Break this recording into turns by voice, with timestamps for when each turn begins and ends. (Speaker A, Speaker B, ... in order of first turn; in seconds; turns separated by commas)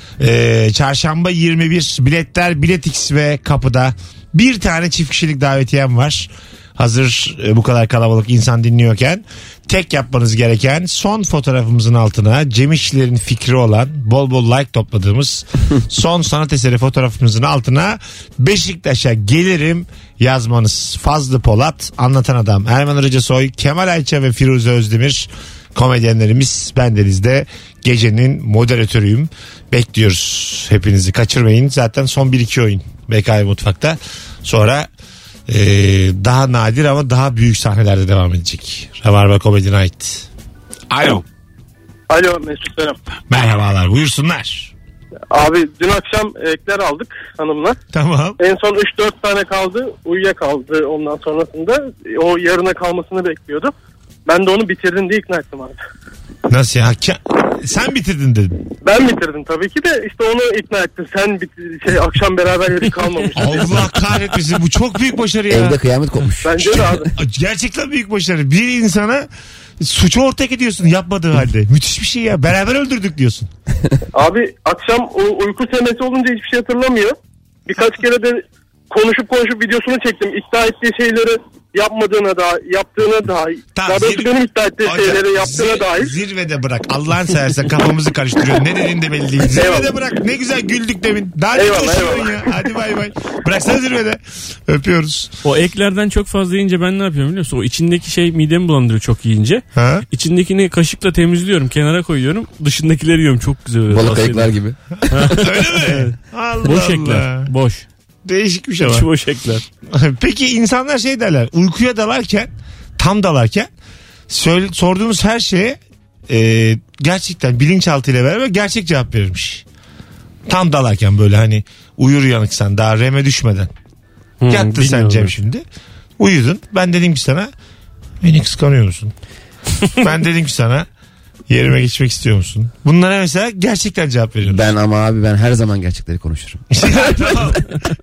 Speaker A: 0.2-34.9, Speaker A: 35.5-40.3, Speaker A: 40.9-41.2, Speaker B: 42.1-43.0, Speaker A: 43.3-44.7, Speaker B: 45.3-47.8, Speaker A: 47.9-48.4, Speaker B: 48.4-53.7, Speaker B: 54.3-55.8, Speaker A: 56.5-58.6, Speaker B: 58.8-63.7, Speaker A: 63.4-65.8, Speaker C: 65.5-67.1, Speaker B: 66.4-67.1, Speaker A: 67.2-69.3, Speaker A: 69.8-73.5, Speaker B: 74.1-86.2, Speaker A: 83.8-84.3, Speaker A: 84.8-95.3, Speaker B: 89.5-90.0, Speaker B: 91.5-92.5, Speaker D: 95.4-104.6, Speaker A: 99.7-100.0, Speaker C: 103.9-104.8, Speaker D: 105.1-107.9, Speaker A: 105.2-107.5, Speaker A: 108.2-109.1, Speaker D: 108.9-109.6, Speaker A: 109.9-113.7, Speaker A: 114.3-119.6, Speaker A: 120.5-123.7, Speaker D: 124.4-125.3, Speaker A: 124.5-125.6, Speaker A: 126.2-127.5, Speaker A: 128.2-129.1, Speaker A: 129.9-130.9, Speaker A: 131.5-134.7, Speaker C: 134.5-137.5, Speaker A: 136.7-137.7